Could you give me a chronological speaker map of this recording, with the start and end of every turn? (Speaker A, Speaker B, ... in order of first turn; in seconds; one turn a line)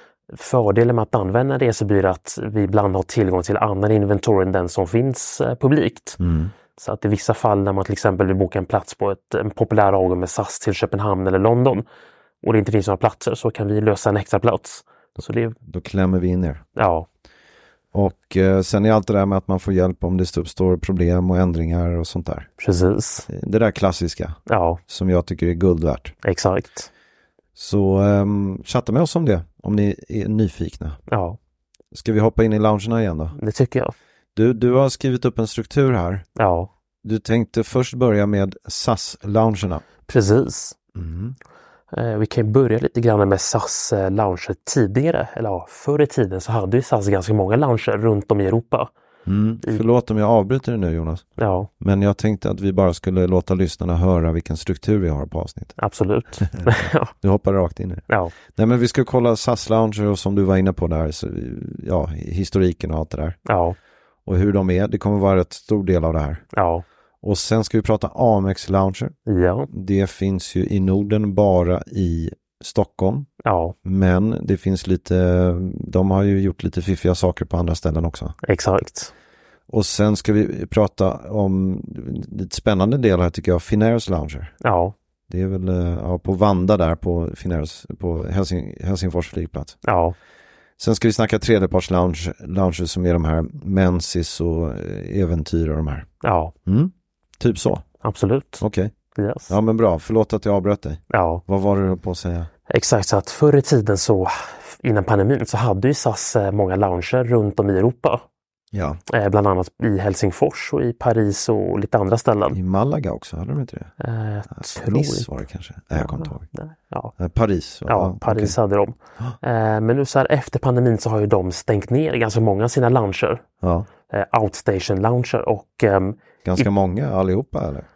Speaker A: 0.3-6.2
Speaker B: 6.2-6.5
Speaker A: 6.8-11.8
Speaker A: 12.4-15.6
Speaker B: 15.2-16.6
Speaker A: 16.8-17.1
Speaker B: 17.9-22.5
Speaker A: 22.6-23.3
Speaker B: 23.3-26.1
Speaker A: 24.5-24.8
Speaker A: 26.2-26.9
Speaker B: 27.6-31.0
Speaker A: 31.1-31.4
Speaker B: 31.9-33.3
Speaker A: 33.3-33.9
Speaker B: 34.3-36.2
Speaker A: 36.4-36.7
Speaker B: 37.0-39.8
Speaker A: 40.1-40.8
Speaker B: 40.9-41.4
Speaker A: 41.9-48.9
Speaker B: 49.2-51.2
Speaker A: 51.4-51.7
Speaker B: 51.8-55.8
Speaker A: 55.8-57.1
Speaker B: 56.5-63.4
Speaker A: 58.1-58.3
Speaker A: 63.5-63.8
Speaker B: 64.2-66.5
Speaker A: 66.5-66.8
Speaker B: 67.2-69.1
Speaker A: 69.3-69.7
Speaker B: 69.7-73.3
Speaker A: 73.4-73.8
Speaker B: 73.8-78.3
Speaker A: 78.4-79.1
Speaker B: 79.7-84.5
Speaker A: 84.6-84.9
Speaker B: 85.3-89.8
Speaker A: 89.8-90.2
Speaker B: 90.8-96.1
Speaker A: 96.2-96.5
Speaker B: 96.7-97.8
Speaker A: 98.0-98.6
Speaker B: 98.6-98.9
Speaker A: 99.1-99.5
Speaker B: 99.5-102.5
Speaker A: 101.1-101.4
Speaker A: 102.7-108.2
Speaker B: 108.7-109.0
Speaker A: 109.1-112.6
Speaker B: 112.5-113.9
Speaker A: 114.0-115.3
Speaker B: 114.5-116.5
Speaker A: 115.9-117.1
Speaker B: 117.2-118.5
Speaker A: 117.9-123.4
Speaker B: 123.6-123.9
Speaker A: 124.1-126.7
Speaker B: 126.4-127.9